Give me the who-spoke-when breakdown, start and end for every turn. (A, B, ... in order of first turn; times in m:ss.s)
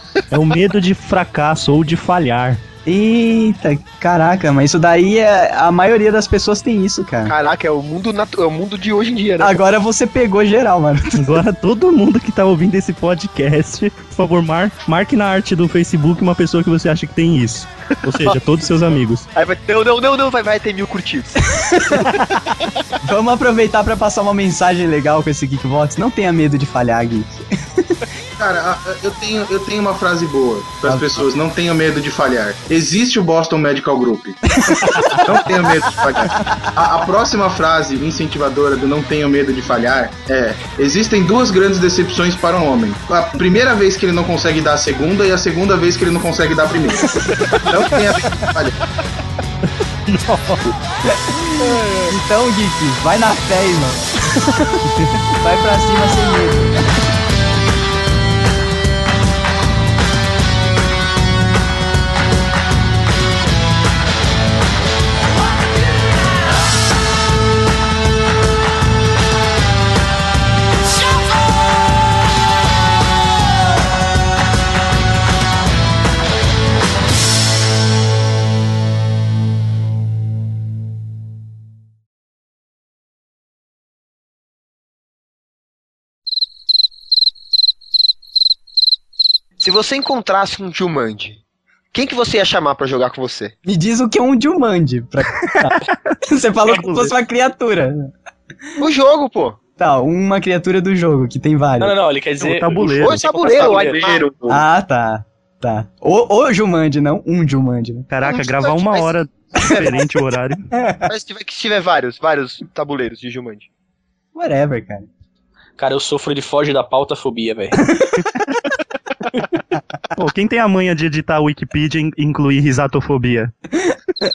0:00.3-0:02.6 A
0:02.8-0:07.3 B
0:07.2-0:09.6 C
0:09.4-0:11.3 B
0:11.2-0:19.2 A
0:18.1-0:18.4 C
0:19.3-0:21.4 C
0:21.5-0:22.1 B
0:22.2-0:22.4 A
0:23.0-0:28.0 B
0:28.4-0:34.5 D
0:30.8-0:31.3 B
0:34.6-0:35.2 B
0:35.1-0:48.8 D
0:50.0-0:50.7 A
0:51.0-0:56.7 B
1:29.6-1:31.4 C
1:31.9-1:33.5 C
1:33.6-1:35.7 B
1:35.6-1:37.1 A
1:36.3-1:38.1 B
1:38.8-1:39.6 C
1:39.8-1:41.9 B
1:41.8-1:44.2 E
1:42.4-1:43.2 A
1:42.8-1:44.6 C
1:44.5-1:48.1 B
1:48.1-1:50.7 A
1:48.2-1:49.2 C
1:49.6-1:49.9 B
1:50.7-1:51.0 B
1:51.1-1:53.7 C
1:54.3-1:55.1 B
1:55.8-1:57.8 E
1:57.8-1:58.2 B
2:00.1-2:03.5 A